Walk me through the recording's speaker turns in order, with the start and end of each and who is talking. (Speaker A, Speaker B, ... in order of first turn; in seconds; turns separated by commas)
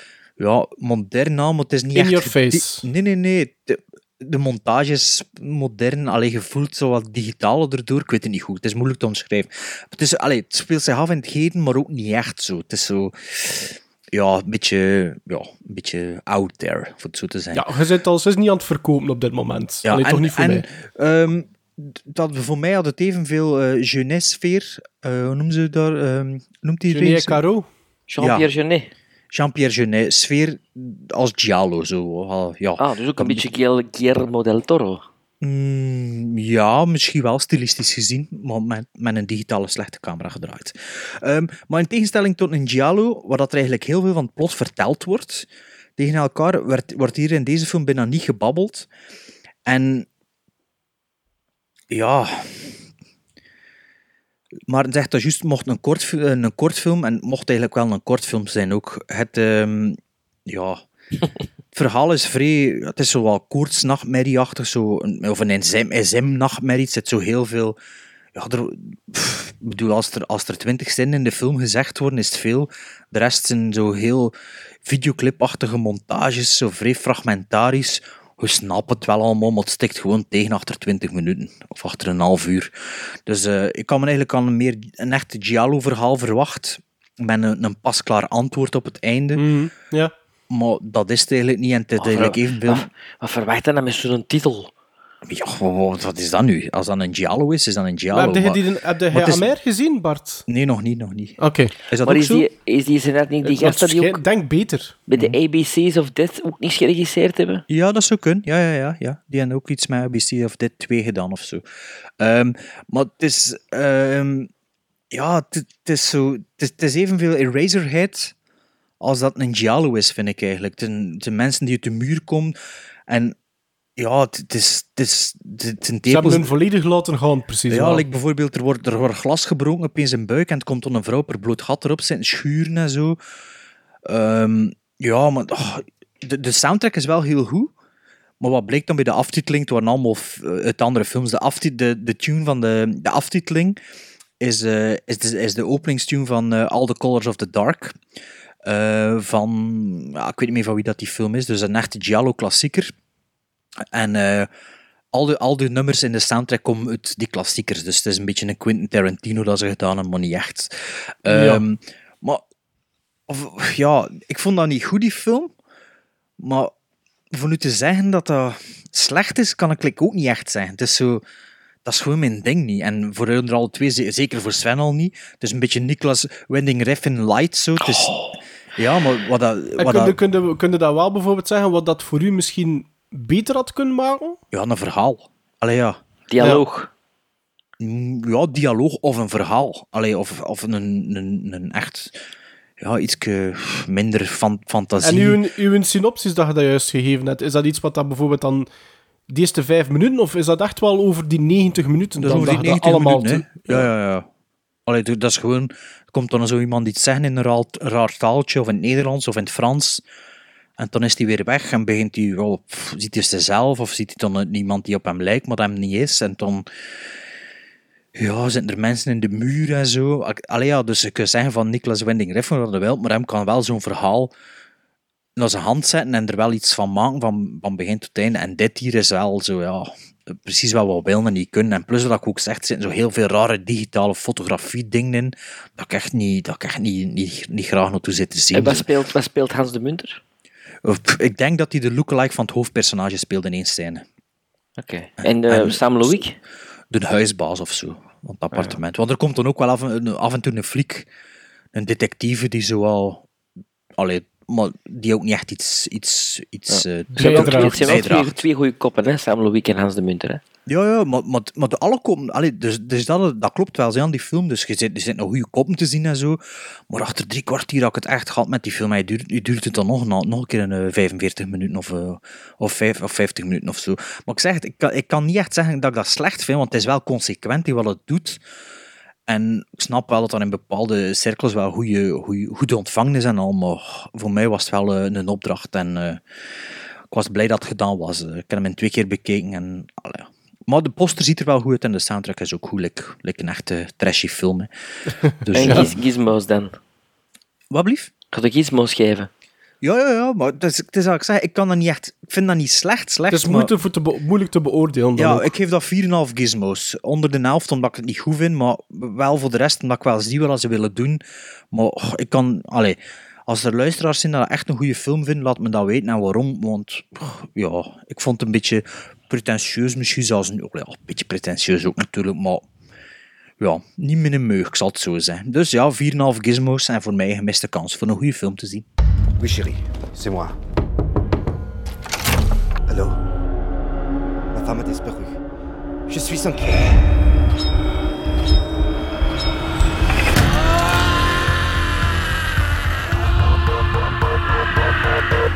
Speaker A: 0.4-17.7, Speaker B: 1.9-2.8, Speaker B: 17.5-20.6, Speaker A: 19.8-27.4, Speaker B: 26.9-27.7, Speaker C: 28.1-28.9, Speaker A: 28.2-28.5, Speaker A: 29.3-33.5, Speaker C: 32.8-35.0, Speaker A: 35.4-45.5, Speaker A: 46.0-48.9, Speaker A: 49.6-50.1, Speaker A: 51.9-52.7, Speaker A: 54.7-60.8, Speaker A: 61.7-67.8, Speaker A: 68.3-74.3, Speaker A: 74.8-82.7, Speaker A: 83.2-89.5, Speaker B: 89.3-90.1, Speaker A: 90.5-92.9, Speaker C: 92.0-94.7, Speaker A: 95.2-99.6, Speaker B: 98.1-100.4, Speaker A: 100.5-101.4, Speaker B: 101.4-101.7, Speaker A: 101.9-102.5, Speaker C: 102.0-104.2, Speaker B: 103.4-105.0, Speaker C: 105.1-107.6, Speaker A: 107.7-111.6, Speaker A: 112.2-114.5, Speaker A: 115.1-118.3, Speaker A: 119.0-122.5, Speaker A: 123.1-123.3, Speaker A: 124.0-126.5, Speaker B: 126.1-128.0, Speaker A: 127.7-133.2, Speaker A: 134.1-137.7, Speaker A: 138.4-143.8, Speaker A: 144.4-148.0, Speaker A: 148.6-152.9, Speaker A: 153.9-154.5, Speaker A: 155.1-160.7, Speaker A: 161.2-162.4, Speaker B: 161.3-161.6, Speaker A: 163.3-165.5, Speaker A: 166.4-166.7, Speaker A: 167.3-171.2, Speaker A: 171.8-178.2, Speaker C: 177.8-178.3, Speaker A: 178.8-180.2, Speaker B: 179.8-184.4, Speaker A: 184.5-186.0, Speaker C: 186.3-186.9, Speaker A: 187.8-192.2, Speaker A: 192.8-195.4, Speaker B: 195.0-198.7, Speaker B: 199.3-203.9, Speaker A: 202.2-204.2, Speaker A: 204.9-210.0, Speaker A: 210.8-216.7, Speaker A: 218.2-224.3, Speaker A: 225.3-238.8, Speaker C: 238.5-240.2, Speaker A: 240.8-244.0, Speaker C: 244.8-246.3, Speaker A: 245.2-246.3, Speaker A: 246.9-251.1, Speaker A: 251.7-253.2, Speaker A: 254.0-258.4, Speaker C: 256.7-260.4, Speaker B: 257.2-258.0, Speaker A: 260.7-278.4, Speaker A: 279.3-286.2, Speaker A: 287.1-294.7, Speaker A: 295.4-296.0, Speaker C: 295.5-296.7, Speaker A: 297.7-298.1, Speaker C: 298.3-299.3, Speaker A: 299.8-303.7, Speaker B: 303.3-305.5, Speaker A: 305.1-322.6, Speaker A: 323.6-328.8, Speaker D: 329.4-330.5, Speaker D: 332.9-333.2, Speaker D: 334.5-335.4, Speaker D: 336.1-337.0